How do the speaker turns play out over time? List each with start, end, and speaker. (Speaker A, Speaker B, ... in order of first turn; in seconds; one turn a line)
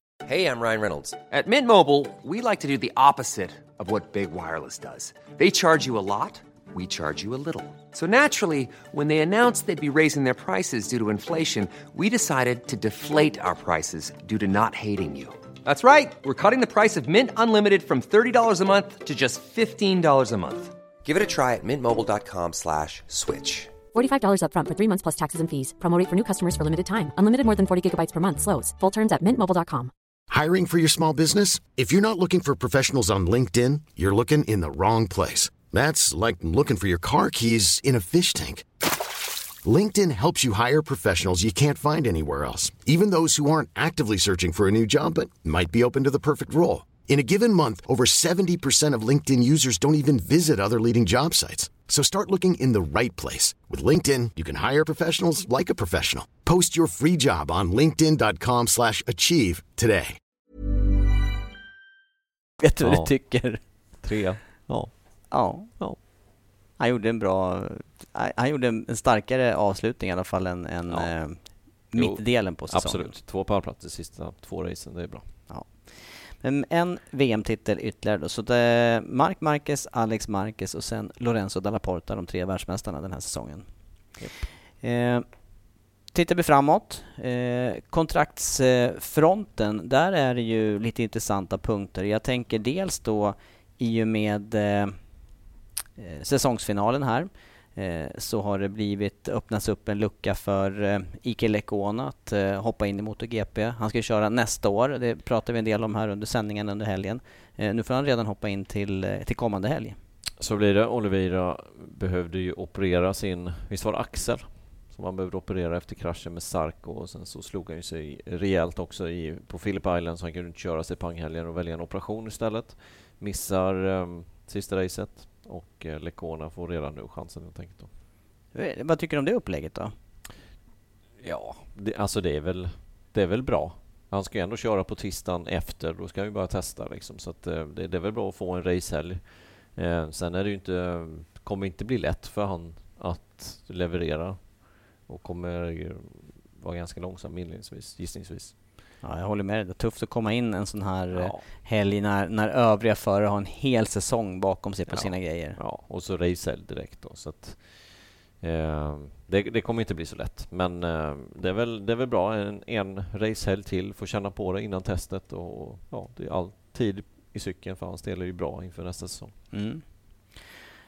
Speaker A: 0.2-23.8
Speaker B: 23.9-29.9
Speaker C: 30.3-38.8
Speaker C: 39.6-60.2
Speaker D: 62.6-63.6
Speaker E: 62.8-66.0
Speaker D: 65.3-66.1
Speaker D: 66.8-73.1
Speaker E: 70.9-75.3
Speaker D: 75.5-84.1
Speaker D: 84.8-85.2
Speaker D: 86.1-95.0
Speaker D: 96.0-110.0
Speaker E: 110.4-127.9
Speaker D: 128.5-129.9
Speaker E: 131.2-148.6
Speaker D: 149.0-155.6
Speaker E: 151.1-151.4
Speaker E: 154.9-169.3
Speaker D: 169.5-170.5